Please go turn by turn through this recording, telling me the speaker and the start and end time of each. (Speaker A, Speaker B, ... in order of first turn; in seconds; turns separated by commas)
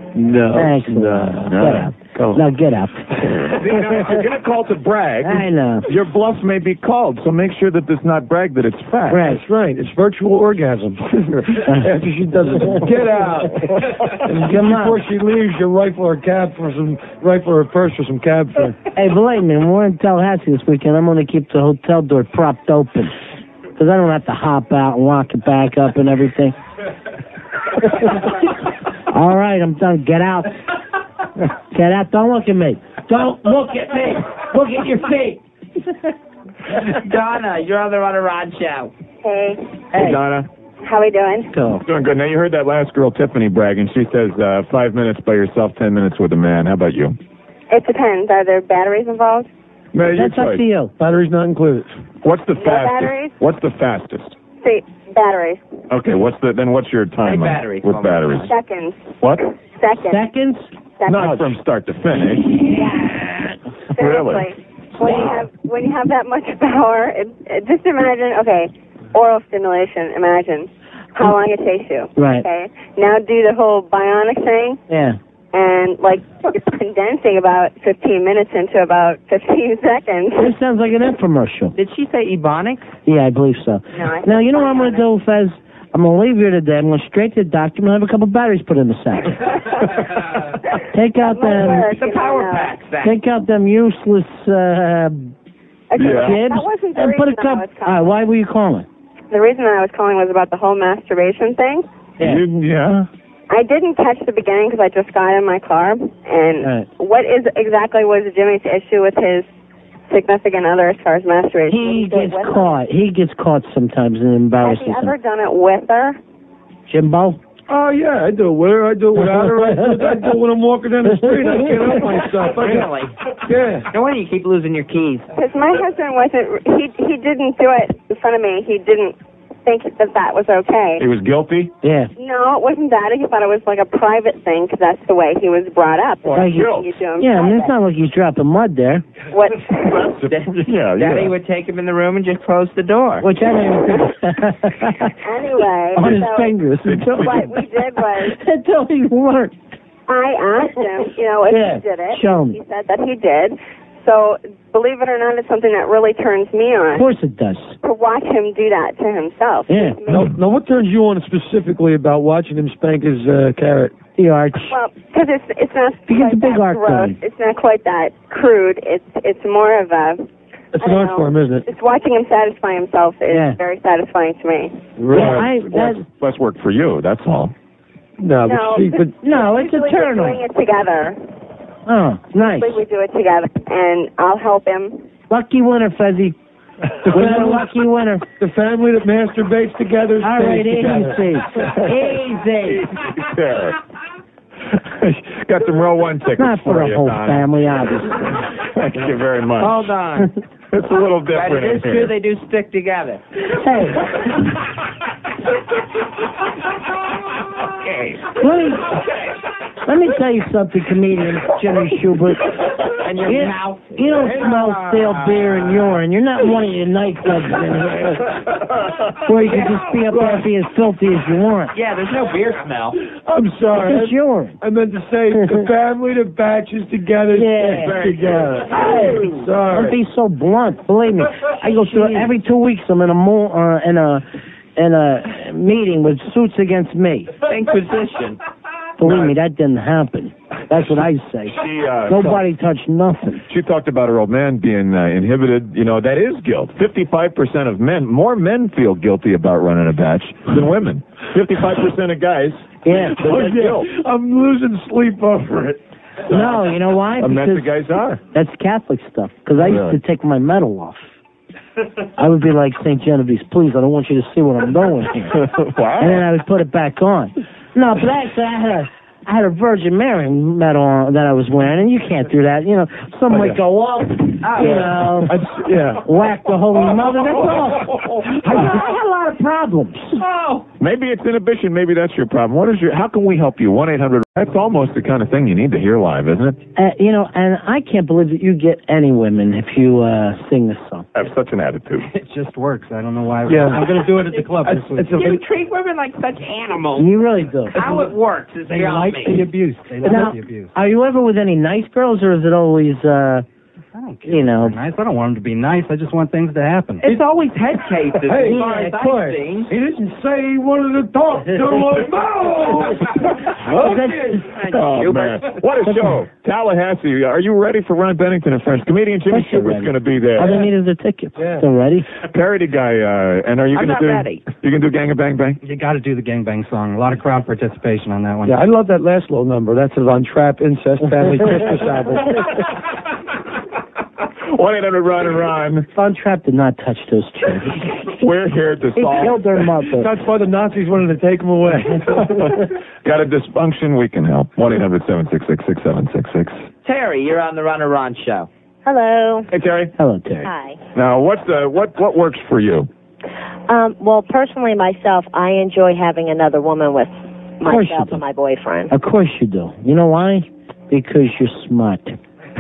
Speaker A: 0.1-2.4, Speaker B: 0.5-3.1, Speaker C: 1.5-1.9, Speaker C: 3.5-9.2, Speaker B: 5.2-5.9, Speaker B: 9.1-9.4, Speaker A: 9.2-18.8, Speaker B: 14.2-15.0, Speaker B: 18.9-23.1, Speaker B: 23.8-26.6, Speaker B: 27.8-28.4, Speaker B: 29.1-30.6, Speaker B: 31.7-35.4, Speaker D: 36.7-38.9, Speaker E: 39.2-39.6, Speaker B: 39.9-40.2, Speaker C: 40.0-40.5, Speaker E: 40.8-41.5, Speaker B: 41.5-41.8, Speaker C: 41.8-47.2, Speaker E: 47.7-49.5, Speaker C: 49.9-50.6, Speaker B: 50.1-50.9, Speaker A: 51.0-51.9, Speaker C: 52.2-54.4, Speaker E: 52.6-53.3, Speaker E: 54.6-55.6, Speaker C: 55.9-58.5, Speaker D: 57.2-58.5, Speaker E: 58.5-59.1, Speaker E: 59.8-60.2, Speaker B: 60.0-60.7, Speaker E: 61.0-61.5, Speaker C: 61.0-62.8, Speaker E: 64.0-74.8, Speaker C: 64.0-64.5, Speaker C: 65.0-65.4, Speaker B: 72.1-72.5, Speaker B: 74.9-75.2, Speaker E: 75.5-80.5, Speaker B: 80.4-81.7, Speaker D: 81.8-82.9, Speaker B: 83.0-89.5, Speaker E: 83.9-85.0, Speaker B: 90.9-91.9, Speaker E: 91.2-92.8, Speaker D: 91.8-93.1, Speaker B: 93.0-95.3, Speaker E: 95.9-98.1, Speaker C: 96.0-96.5, Speaker B: 96.0-98.9, Speaker E: 99.3-101.9, Speaker B: 102.2-102.4, Speaker C: 102.2-103.1, Speaker E: 103.5-109.5, Speaker B: 106.6-106.9, Speaker E: 110.1-112.8, Speaker B: 111.7-115.1, Speaker E: 114.6-116.2, Speaker B: 116.9-117.4, Speaker A: 117.7-123.9, Speaker B: 121.2-121.9, Speaker D: 122.4-123.2, Speaker D: 123.9-125.3, Speaker E: 125.4-131.0, Speaker C: 131.0-131.7, Speaker B: 131.8-132.1, Speaker E: 132.2-137.7, Speaker C: 136.2-136.9, Speaker B: 136.3-139.0, Speaker E: 139.3-140.0, Speaker C: 139.8-141.3, Speaker D: 140.3-143.3, Speaker B: 143.2-145.1, Speaker E: 145.2-146.5, Speaker B: 145.9-147.6, Speaker C: 146.8-147.5, Speaker E: 147.2-148.4, Speaker B: 148.2-149.6, Speaker E: 150.1-157.1, Speaker B: 151.5-152.6, Speaker B: 156.9-157.8, Speaker E: 157.8-160.3, Speaker B: 159.7-160.0, Speaker A: 160.1-163.9, Speaker C: 160.1-160.4, Speaker B: 164.2-164.8, Speaker E: 164.7-170.2, Speaker B: 166.1-167.2, Speaker A: 170.8-171.7, Speaker E: 170.8-174.8, Speaker B: 173.3-173.6, Speaker A: 175.0-175.5, Speaker B: 175.1-176.0, Speaker C: 175.1-177.5, Speaker A: 178.2-179.2, Speaker E: 178.4-181.2, Speaker B: 179.2-180.4, Speaker B: 181.8-182.8, Speaker E: 182.4-185.0, Speaker B: 185.3-186.3, Speaker A: 187.1-187.6, Speaker B: 187.1-188.2, Speaker A: 188.4-191.3, Speaker B: 190.2-192.9, Speaker C: 191.7-193.8, Speaker C: 194.7-197.5, Speaker B: 196.4-198.4, Speaker C: 198.5-199.9, Speaker D: 199.6-200.3, Speaker C: 200.7-202.1, Speaker D: 201.3-203.2, Speaker B: 203.4-204.3, Speaker B: 208.4-209.0, Speaker B: 209.8-212.5, Speaker D: 213.0-215.9, Speaker B: 213.2-218.4, Speaker B: 219.2-221.7, Speaker D: 219.5-219.8, Speaker D: 221.7-223.0, Speaker A: 223.2-229.9, Speaker B: 223.7-224.6, Speaker B: 227.3-228.3, Speaker C: 227.6-229.4, Speaker B: 229.7-234.2, Speaker B: 234.8-237.3, Speaker D: 237.4-238.4, Speaker B: 239.0-243.4, Speaker C: 239.0-239.3, Speaker C: 241.5-242.4, Speaker C: 243.5-253.9, Speaker B: 252.8-253.2, Speaker A: 253.1-255.8, Speaker C: 256.2-258.2, Speaker B: 256.3-257.7, Speaker B: 258.3-261.1, Speaker C: 259.6-260.0, Speaker B: 262.2-265.4, Speaker C: 265.3-266.2, Speaker B: 266.0-275.4, Speaker D: 274.4-274.9, Speaker A: 275.3-276.0, Speaker C: 275.6-276.0, Speaker B: 276.0-280.2, Speaker D: 280.2-280.6, Speaker C: 280.8-286.6, Speaker B: 286.8-291.1, Speaker C: 291.1-292.1, Speaker F: 292.1-295.3, Speaker A: 293.5-294.0, Speaker A: 294.6-295.4, Speaker D: 295.2-297.1, Speaker B: 297.0-297.8, Speaker D: 297.7-299.5, Speaker F: 297.8-298.1, Speaker F: 298.7-300.7, Speaker B: 300.0-303.4, Speaker F: 303.9-307.0, Speaker B: 304.3-304.8, Speaker D: 307.0-309.7, Speaker A: 308.3-314.5, Speaker B: 308.4-308.9, Speaker C: 313.4-313.9, Speaker B: 313.7-314.6, Speaker C: 314.7-320.7, Speaker D: 315.0-315.6, Speaker B: 315.8-316.2, Speaker B: 319.3-322.1, Speaker A: 321.4-321.6, Speaker C: 322.3-325.6, Speaker D: 323.7-324.4, Speaker F: 325.6-328.6, Speaker A: 328.5-332.5, Speaker C: 334.5-335.9, Speaker B: 335.9-338.0, Speaker C: 338.1-339.6, Speaker B: 338.9-340.1, Speaker A: 339.8-342.3, Speaker C: 342.1-346.6, Speaker D: 346.8-348.5, Speaker G: 348.8-349.5, Speaker C: 349.5-349.9, Speaker B: 350.0-350.5, Speaker G: 350.4-350.8, Speaker C: 350.9-352.9, Speaker G: 353.7-358.9, Speaker B: 357.6-358.2, Speaker B: 358.9-362.2